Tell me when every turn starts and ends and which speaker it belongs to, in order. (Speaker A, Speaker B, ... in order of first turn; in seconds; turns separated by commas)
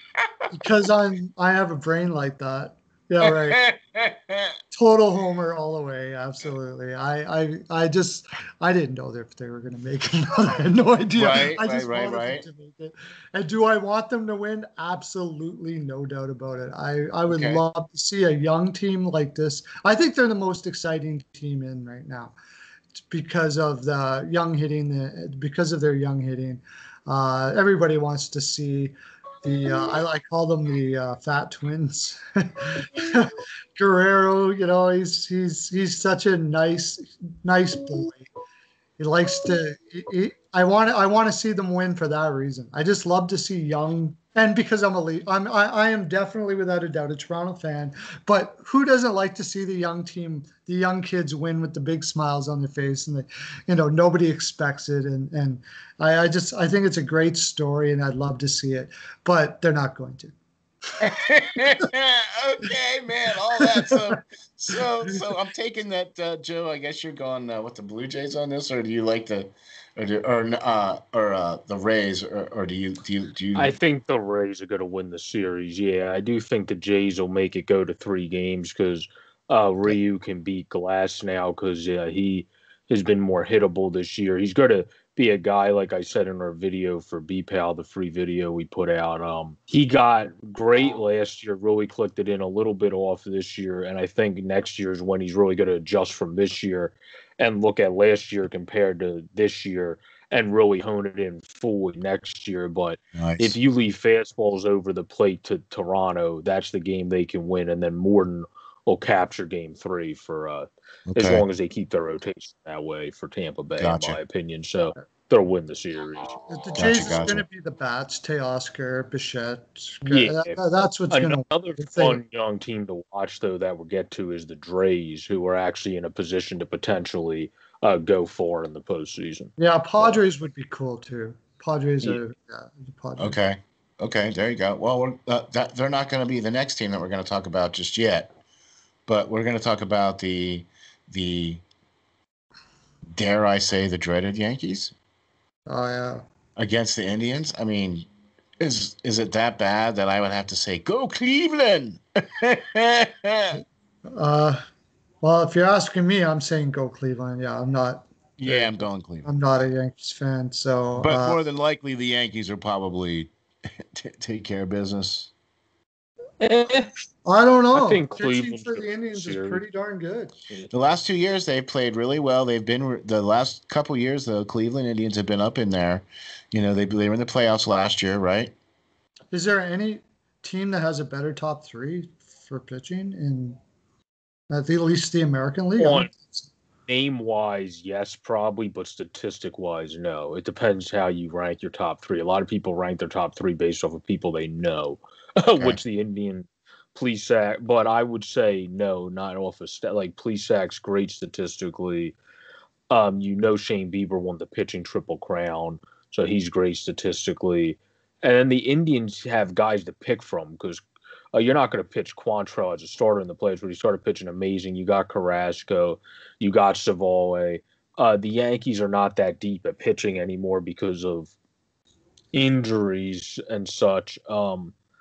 Speaker A: 0.5-3.6, Speaker B: 3.2-4.5, Speaker A: 4.7-22.3, Speaker B: 11.1-12.4, Speaker B: 17.3-17.6, Speaker A: 23.1-38.3, Speaker A: 39.0-60.3, Speaker B: 61.0-73.8, Speaker A: 63.6-64.0, Speaker C: 73.5-116.4, Speaker B: 103.2-103.5, Speaker B: 111.1-111.4, Speaker B: 113.8-114.2, Speaker A: 116.5-122.2, Speaker B: 116.8-117.4, Speaker C: 120.0-130.2, Speaker A: 129.6-133.3, Speaker B: 133.2-138.3, Speaker B: 139.1-141.6, Speaker B: 143.1-144.9, Speaker A: 145.7-146.2, Speaker B: 146.6-148.1, Speaker B: 148.6-153.6, Speaker A: 153.5-154.6, Speaker A: 155.2-161.4, Speaker B: 158.4-159.3, Speaker B: 161.0-165.3, Speaker C: 166.4-166.9, Speaker A: 167.2-170.3, Speaker C: 167.7-169.6, Speaker B: 170.7-178.5, Speaker A: 179.3-183.6, Speaker A: 184.5-186.5, Speaker C: 185.8-186.1, Speaker C: 186.9-202.2, Speaker C: 202.9-221.3, Speaker C: 222.3-224.7